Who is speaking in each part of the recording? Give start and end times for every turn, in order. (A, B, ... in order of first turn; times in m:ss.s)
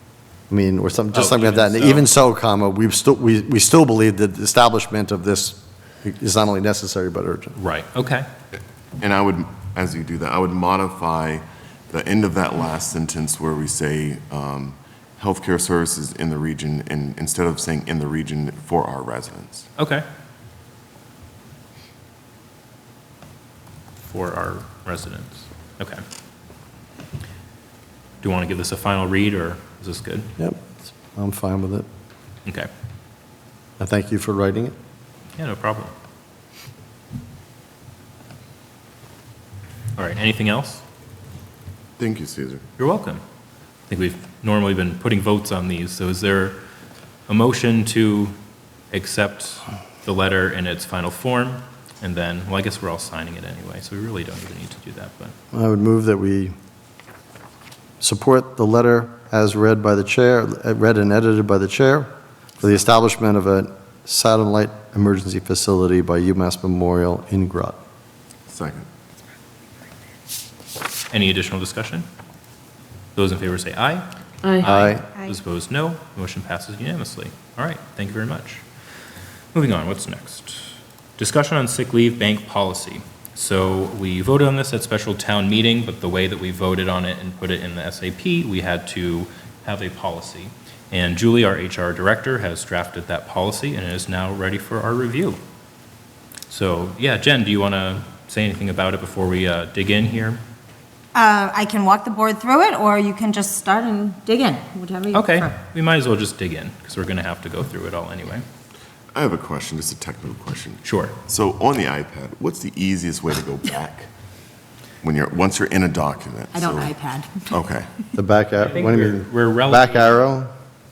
0:00.5-0:07.6 A
0:01.1-0:02.1 B
0:07.6-0:08.3 B
0:09.0-0:19.7 C
0:19.8-0:20.0 B
0:24.0-0:26.0 B
0:28.2-0:30.3 B
0:30.4-0:31.9 A
0:33.8-0:34.8 A
0:35.4-0:35.9 B
0:40.0-0:40.8 B
0:42.0-0:42.6 C
0:42.8-0:43.2 B
0:43.9-0:46.6 B
0:47.3-0:48.4 B
0:48.9-0:55.3 B
0:55.5-0:56.5 A
0:58.0-1:02.1 A
1:02.6-1:07.8 A
1:08.5-1:08.9 C
1:11.1-1:12.1 B
1:13.2-1:14.1 B
1:14.6-1:18.6 B
1:14.6-1:15.0 A
1:19.5-1:35.4 B
1:36.5-1:40.4 B
1:41.2-1:45.5 D
1:45.1-1:48.4 B
1:49.1-1:54.1 C
1:50.8-1:51.2 B
1:55.0-1:57.9 C
1:56.5-1:57.5 D
1:58.2-2:00.5 A
1:58.6-2:00.3 B